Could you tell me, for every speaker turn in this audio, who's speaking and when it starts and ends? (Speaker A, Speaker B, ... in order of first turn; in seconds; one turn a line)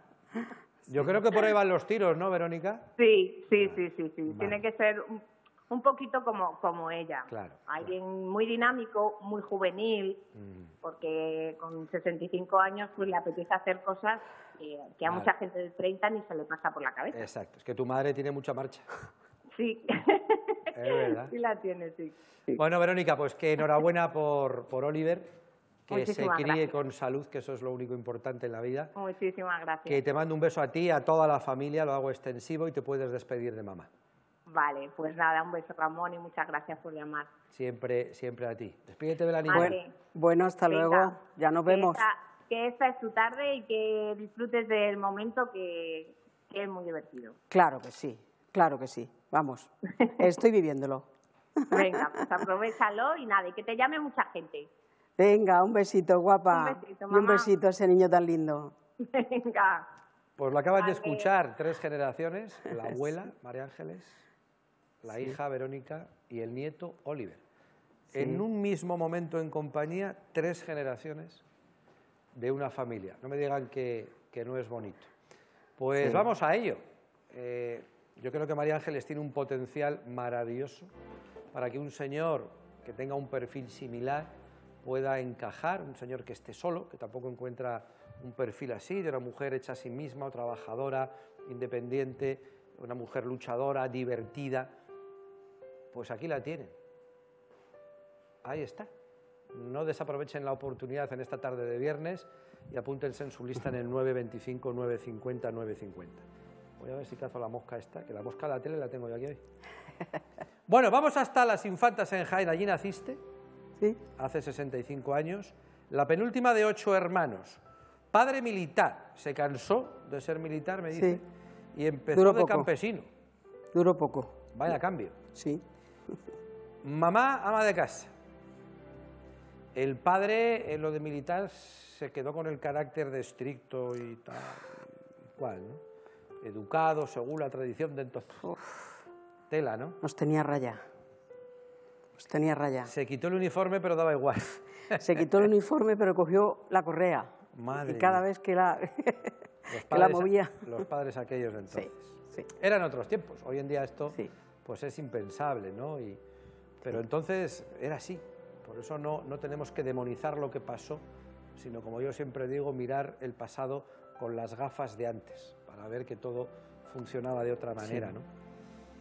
Speaker A: 0.9-2.9
Speaker B: 3.0-10.2
Speaker A: 3.6-4.6
Speaker A: 7.3-7.9
Speaker A: 10.3-10.7
Speaker B: 10.8-17.2
Speaker A: 17.1-18.9
Speaker B: 19.5-22.1
Speaker A: 20.7-21.3
Speaker A: 22.5-25.3
Speaker A: 25.9-28.9
Speaker B: 25.9-26.7
Speaker B: 28.9-30.0
Speaker A: 29.9-33.9
Speaker B: 34.5-37.3
Speaker A: 37.5-39.8
Speaker B: 39.4-39.9
Speaker C: 39.5-42.0
Speaker B: 40.7-41.1
Speaker B: 41.7-47.4
Speaker C: 47.5-52.2
Speaker B: 51.7-54.7
Speaker C: 55.2-58.7
Speaker B: 56.5-57.5
Speaker B: 59.0-59.9
Speaker A: 60.4-64.2
Speaker B: 60.7-61.3
Speaker A: 65.0-67.4
Speaker A: 68.1-71.4
Speaker C: 68.1-68.4
Speaker A: 72.3-75.1
Speaker A: 75.8-80.9
Speaker A: 81.5-84.3
Speaker A: 84.8-94.7
Speaker A: 95.9-96.7
Speaker A: 98.4-98.9
Speaker A: 99.5-106.2
Speaker A: 106.8-109.4
Speaker A: 110.7-113.2
Speaker A: 114.2-117.6
Speaker A: 118.1-123.1
Speaker C: 121.0-121.2
Speaker C: 122.1-122.7
Speaker C: 123.7-124.4
Speaker A: 124.5-125.2
Speaker C: 125.3-125.6
Speaker A: 126.8-128.1
Speaker A: 129.7-135.8
Speaker A: 136.4-138.5
Speaker C: 138.5-138.8
Speaker A: 139.5-140.0
Speaker C: 140.0-140.8
Speaker C: 142.2-142.9
Speaker A: 142.8-145.3
Speaker C: 145.0-150.7
Speaker A: 147.5-148.2
Speaker A: 149.7-156.2
Speaker C: 151.7-152.5
Speaker A: 156.8-161.0
Speaker A: 161.6-168.3